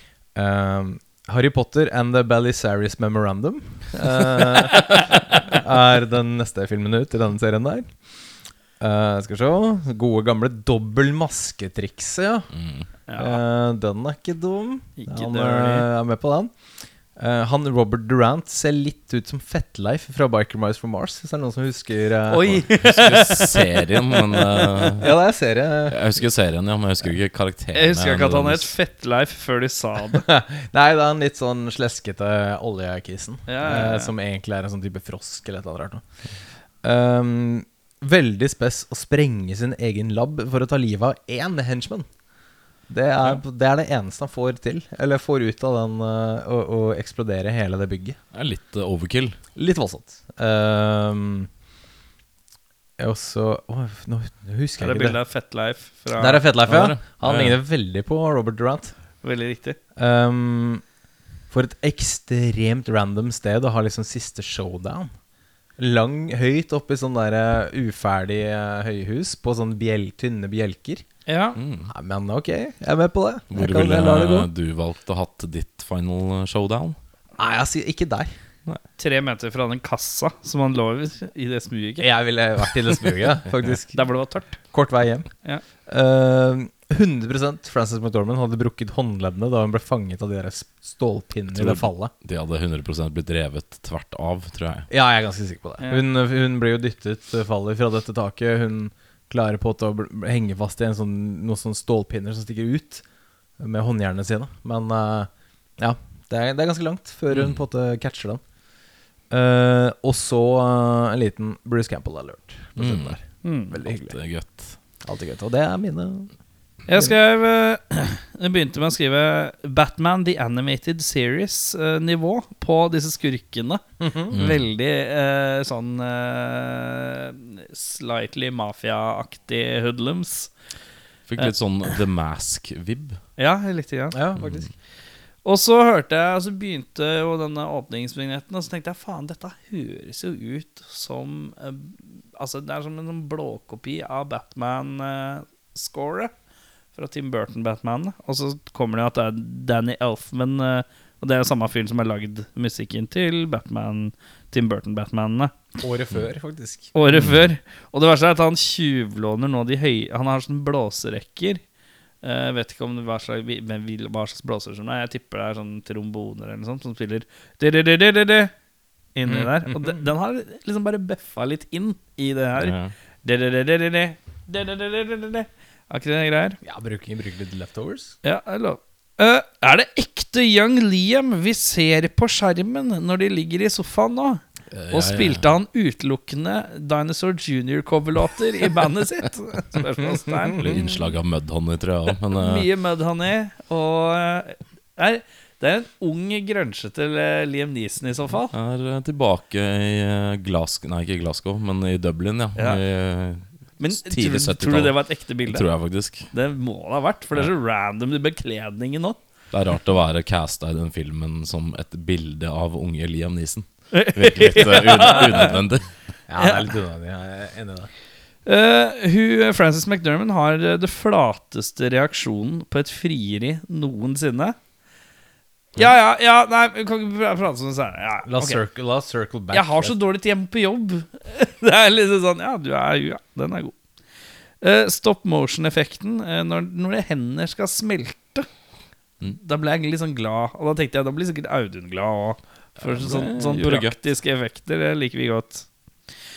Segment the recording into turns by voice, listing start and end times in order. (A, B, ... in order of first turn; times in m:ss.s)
0:00.3-0:08.0 A
0:04.9-0:05.4 B
0:08.8-0:12.5 A
0:12.5-0:12.9 C
0:13.1-0:13.4 B
0:13.2-0:16.5 A
0:15.0-0:15.9 B
0:17.1-0:22.6 A
0:22.3-0:24.6 B
0:22.8-0:25.2 C
0:25.0-0:26.0 A
0:25.9-0:28.7 C
0:27.7-0:30.2 B
0:30.1-0:36.0 A
0:33.5-0:34.1 B
0:36.8-0:42.1 A
0:42.9-0:48.2 A
0:48.3-0:49.4 C
0:49.6-0:51.5 A
0:53.0-0:55.2 A
0:54.8-0:56.4 B
0:56.2-0:58.9 A
0:56.6-0:57.6 C
0:59.2-0:59.8 B
1:00.0-1:00.8 A
1:01.5-1:05.1 A
1:05.8-1:11.0 A
1:11.2-1:11.6 B
1:11.6-1:11.9 C
1:11.9-1:14.5 A
1:13.5-1:17.0 C
1:17.4-1:18.3 A
1:19.0-1:22.1 B
1:22.0-1:32.1 A
1:23.9-1:24.6 B
1:31.5-1:34.9 C
1:34.9-1:43.0 A
1:43.6-1:48.4 A
1:47.3-1:47.6 C
1:49.3-1:54.2 A
1:52.8-1:53.2 C
1:53.4-1:53.7 B
1:53.8-1:54.8 C
1:55.0-1:56.3 A
1:56.9-2:10.5 B
2:04.0-2:04.4 A
2:04.3-2:04.7 C
2:11.3-2:13.2 C
2:13.4-2:14.2 B
2:14.1-2:14.7 A
2:15.4-2:26.3 B
2:26.9-2:35.6 B
2:35.8-2:36.9 A
2:36.9-2:41.6 B
2:37.1-2:37.4 C
2:42.2-2:48.5 B
2:49.1-2:56.6 B
2:49.6-2:50.1 A
2:52.6-2:52.9 C
2:56.6-2:58.1 A
2:58.2-3:11.0 B
3:04.7-3:05.5 C
3:10.6-3:12.7 C
3:12.4-3:18.5 B
3:18.5-3:26.3 C
3:22.6-3:22.8 B
3:23.8-3:25.7 B
3:26.3-3:29.2 B
3:29.5-3:35.9 C
3:33.9-3:35.5 B
3:36.3-3:37.9 A
3:36.4-3:36.7 B
3:38.4-3:44.6 B
3:45.8-3:48.6 B
3:48.2-3:49.9 A
3:49.5-3:53.8 B
3:54.6-3:58.5 B
3:59.3-4:05.7 B
4:02.8-4:04.0 C